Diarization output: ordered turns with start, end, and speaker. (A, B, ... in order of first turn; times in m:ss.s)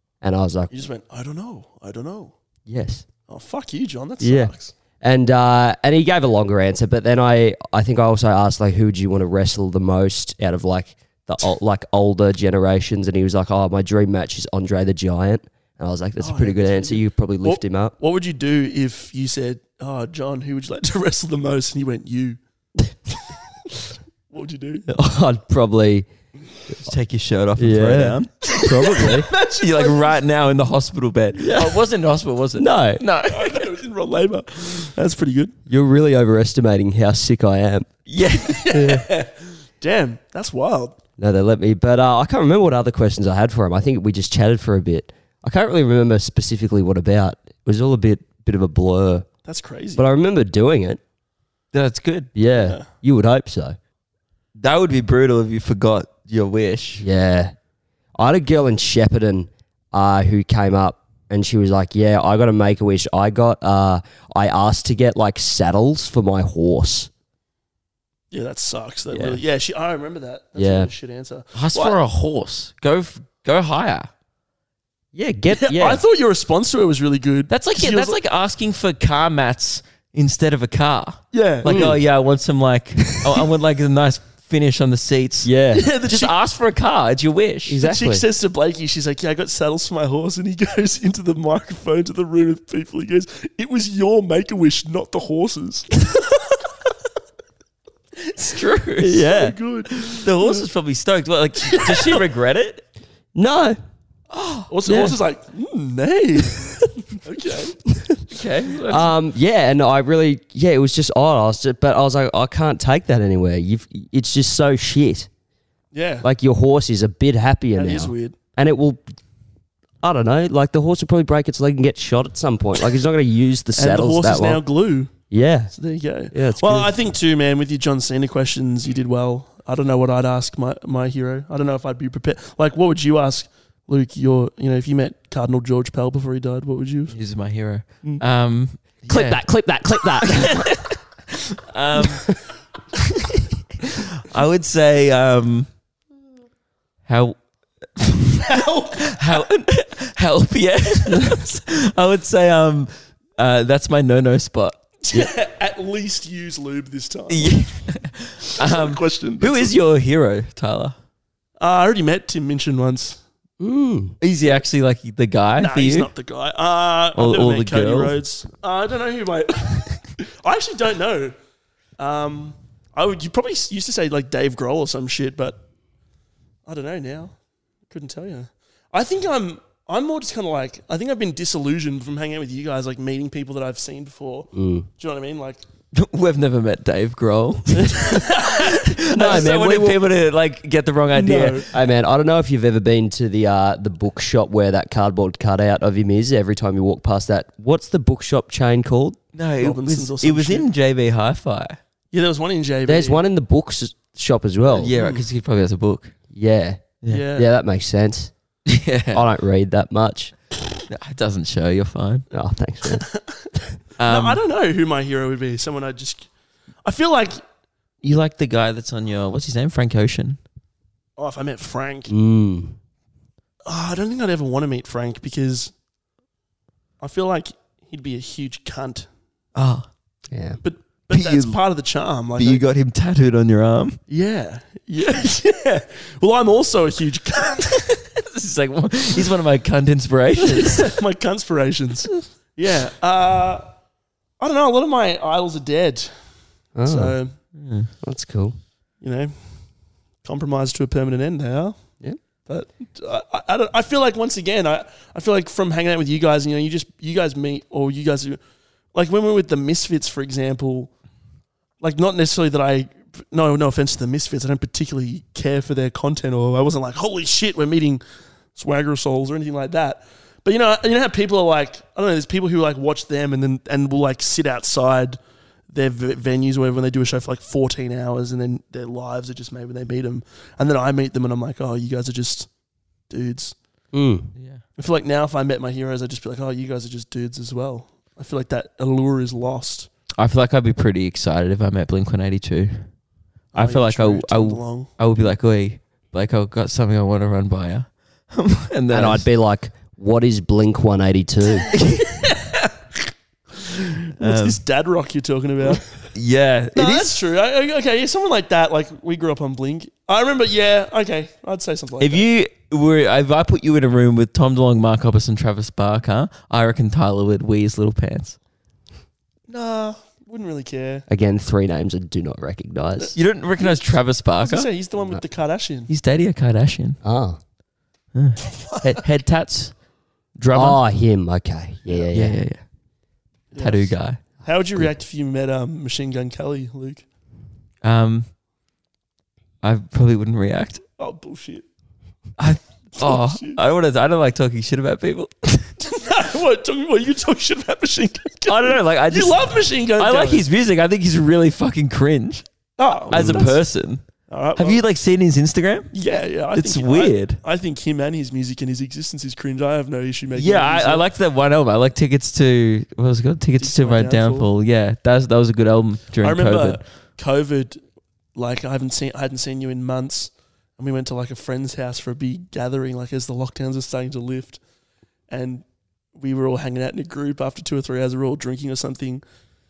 0:00.2-0:00.7 A
0:00.7-0:02.3 B
0:02.7-0:03.0 A
0:03.3-0:04.7 B
0:04.2-0:17.9 A
0:16.2-0:22.4 B
0:24.3-0:24.9 B
0:24.9-0:26.1 A
0:26.8-0:28.3 C
0:27.6-0:29.3 A
0:28.4-0:30.2 B
0:29.6-0:33.7 C
0:31.4-0:31.7 A
0:32.6-0:33.0 A
0:33.3-0:35.5 B
0:35.7-0:37.9 A
0:38.1-0:38.7 C
0:38.5-0:41.0 B
0:38.7-0:39.0 A
0:41.2-0:49.2 A
0:49.4-0:50.0 B
0:50.0-0:51.0 A
0:51.7-0:52.3 C
0:52.3-0:53.8 A
0:52.5-0:52.9 B
0:54.6-0:57.0 C
0:57.0-0:57.5 A
0:58.2-1:07.1 A
1:08.3-1:12.0 B
1:09.1-1:09.4 A
1:10.6-1:10.9 A
1:11.5-1:14.1 C
1:15.1-1:16.0 A
1:15.5-1:18.2 B
1:17.5-1:25.5 C
1:21.3-1:22.0 B
1:21.6-1:22.0 A
1:25.4-1:25.8 A
1:25.7-1:26.3 B
1:26.0-1:27.8 C
1:27.7-1:28.2 A
1:27.8-1:36.0 B
1:38.2-1:39.3 C
1:39.0-1:39.6 A
1:39.2-1:40.6 B
1:39.9-1:42.8 C
1:41.7-1:42.2 B
1:43.3-1:43.8 A
1:44.3-1:44.7 C
1:44.7-1:47.8 B
1:44.9-1:45.2 A
1:47.9-1:48.2 A
1:48.3-1:49.1 C
1:48.9-1:55.3 A
1:55.9-1:56.3 B
1:56.2-1:59.0 A
1:57.8-1:58.4 B
2:00.0-2:04.6 A
2:03.8-2:17.1 B
2:05.3-2:05.7 A
2:06.3-2:06.9 A
2:17.1-2:19.4 C
2:19.1-2:20.8 A
2:20.2-2:22.2 C
2:22.0-2:22.3 A
2:23.3-2:25.7 C
2:27.0-2:27.4 C
2:28.0-2:34.8 C
2:28.4-2:29.4 B
2:35.0-2:37.6 B
2:37.3-2:41.0 C
2:38.6-2:39.7 B
2:41.6-2:43.2 B
2:43.6-2:44.2 A
2:44.2-2:46.1 C
2:45.6-2:51.3 B
2:47.1-2:48.1 C
2:52.0-2:55.6 B
2:56.6-2:57.3 B
2:57.9-3:05.6 B
3:04.5-3:04.9 A
3:05.9-3:11.6 C
3:08.0-3:09.5 B
3:09.1-3:10.0 A
3:11.1-3:11.7 B
3:11.7-3:19.2 A
3:19.3-3:21.8 C
3:19.6-3:20.7 B
3:22.1-3:23.2 B
3:22.8-3:24.9 A
3:24.7-3:26.1 C
3:24.9-3:25.2 B
3:26.3-3:28.3 A
3:27.1-3:27.5 B
3:28.7-3:29.3 C
3:29.1-3:30.3 A
3:30.9-3:32.2 C
3:32.3-3:33.0 A
3:32.8-3:33.5 B
3:34.0-3:34.4 C
3:34.0-3:36.3 B
3:36.8-3:37.4 B
3:38.0-3:40.4 C
3:41.2-3:42.1 B
3:42.1-3:42.8 A
3:43.6-3:45.7 B
3:47.0-3:49.1 B
3:49.5-3:49.9 C
3:50.3-3:50.6 A
3:50.6-3:52.6 B
3:51.1-3:51.6 C
3:52.4-3:54.0 C
3:54.1-3:57.9 B
3:58.1-4:00.9 C
4:00.4-4:03.7 B
4:04.4-4:06.1 B
4:06.8-4:07.2 A
4:06.8-4:07.3 B
4:07.6-4:07.9 C
4:08.0-4:08.6 A
4:09.0-4:09.3 B
4:10.2-4:11.8 B
4:12.5-4:18.4 B
4:18.9-4:20.9 B
4:21.8-4:28.0 B
4:28.6-4:35.2 B
4:35.7-4:42.5 B
4:43.1-4:43.5 B
4:43.9-4:44.3 A
4:44.3-4:44.6 C
4:44.8-4:49.9 B
4:50.2-4:52.9 C
4:53.5-4:54.9 B
4:53.5-4:59.2 C
4:58.9-5:01.7 A
5:01.7-5:02.2 C
5:02.0-5:02.7 B
5:03.6-5:05.8 B
5:04.2-5:04.6 C
5:06.1-5:07.1 C
5:06.8-5:12.3 B
5:12.0-5:18.4 C
5:19.5-5:21.0 B
5:21.1-5:23.1 A
5:23.0-5:25.9 B
5:23.1-5:24.7 C
5:25.9-5:27.0 C
5:27.0-5:27.4 A
5:28.1-5:29.7 C
5:28.6-5:28.9 B
5:30.4-5:30.8 C
5:30.5-5:32.4 A
5:32.1-5:32.6 C
5:33.5-5:37.0 B
5:33.6-5:34.2 C
5:37.8-5:38.3 C
5:39.6-5:40.8 C
5:41.0-5:41.6 B
5:42.4-5:45.7 C
5:43.0-5:43.6 B
5:45.8-5:50.4 B
5:48.5-5:49.4 C
5:50.0-5:52.4 C
5:52.8-5:53.6 B
5:53.1-5:54.0 C
5:53.1-5:53.5 A
5:54.3-5:54.8 B
5:54.6-5:55.9 C
5:55.9-6:01.0 B
5:56.5-5:57.4 C
6:00.3-6:06.8 C
6:03.6-6:04.5 B
6:06.2-6:07.8 B
6:08.3-6:14.6 B
6:15.3-6:15.6 B
6:16.1-6:19.2 B